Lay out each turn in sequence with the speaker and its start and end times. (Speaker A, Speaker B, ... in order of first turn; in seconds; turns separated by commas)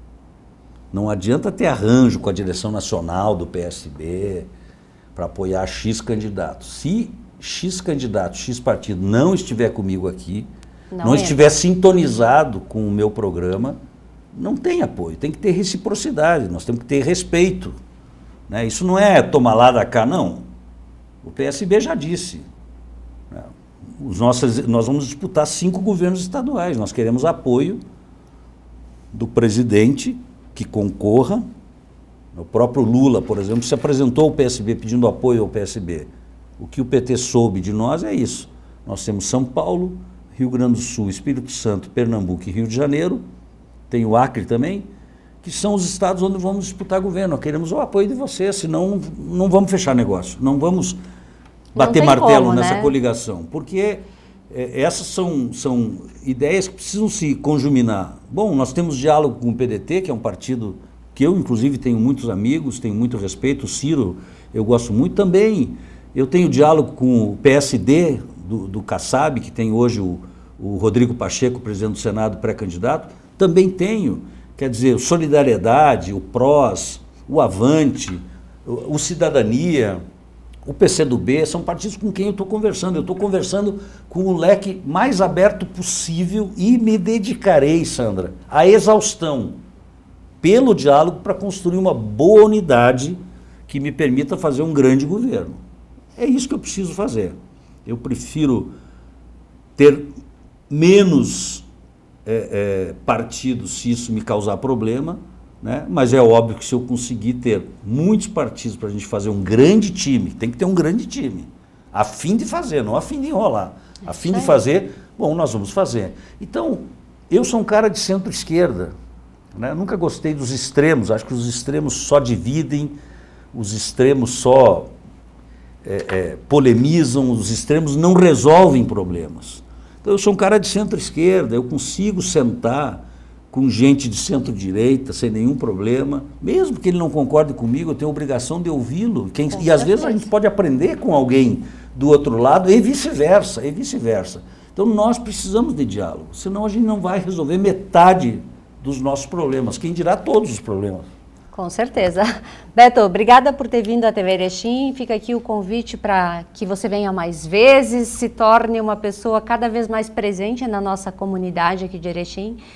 Speaker A: 0.9-4.5, Speaker A: 5.1-10.5, Speaker B: 10.9-11.4, Speaker A: 11.0-13.8, Speaker A: 14.3-17.8, Speaker A: 18.5-20.5, Speaker A: 21.2-22.5, Speaker A: 23.3-27.8, Speaker A: 29.1-31.5, Speaker A: 32.3-43.2, Speaker A: 43.9-44.9, Speaker A: 45.4-51.0, Speaker B: 51.7-52.9, Speaker A: 51.7-80.0, Speaker A: 80.6-89.6, Speaker A: 90.4-95.6, Speaker A: 96.2-98.7, Speaker A: 99.8-100.1, Speaker A: 100.7-101.7, Speaker A: 102.2-118.9, Speaker B: 114.3-114.6, Speaker A: 119.5-123.0, Speaker A: 123.5-124.9, Speaker A: 125.8-151.1, Speaker B: 139.5-140.3, Speaker B: 151.5-162.6